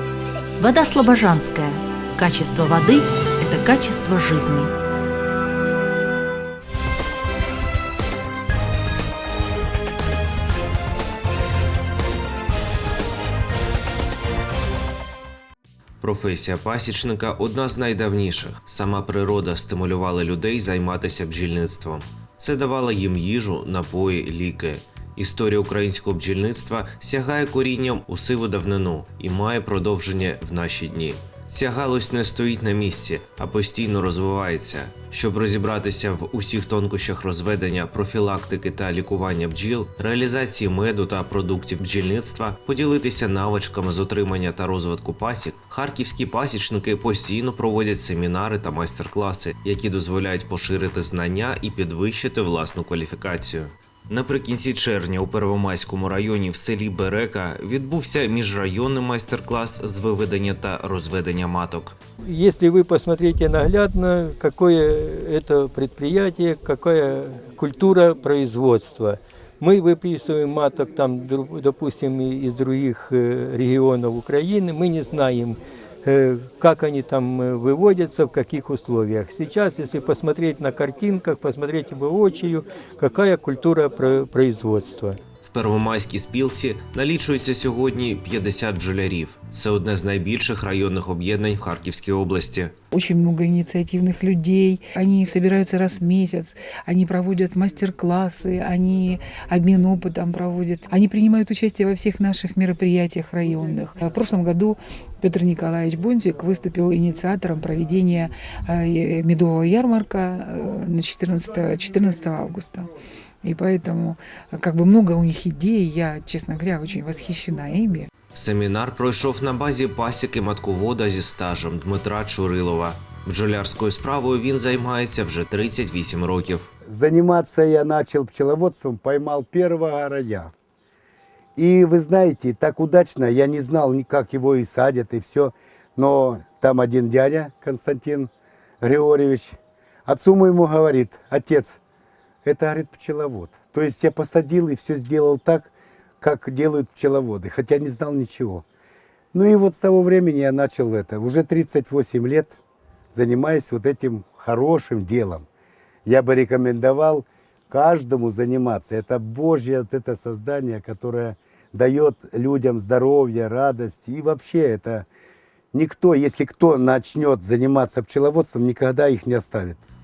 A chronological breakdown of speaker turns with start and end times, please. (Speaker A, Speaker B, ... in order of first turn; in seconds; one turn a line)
Speaker A: 0.6-4.7
Speaker B: 16.0-62.0
Speaker C: 62.2-85.2
Speaker B: 85.5-92.7
Speaker D: 92.9-112.9
Speaker D: 113.4-118.1
Speaker B: 118.3-126.7
Speaker E: 126.9-130.5
Speaker E: 131.6-138.3
Speaker E: 138.8-141.8
Speaker E: 142.4-148.6
Speaker E: 149.3-152.6
Speaker E: 153.1-155.4
Speaker E: 156.1-165.1
Speaker E: 165.7-169.8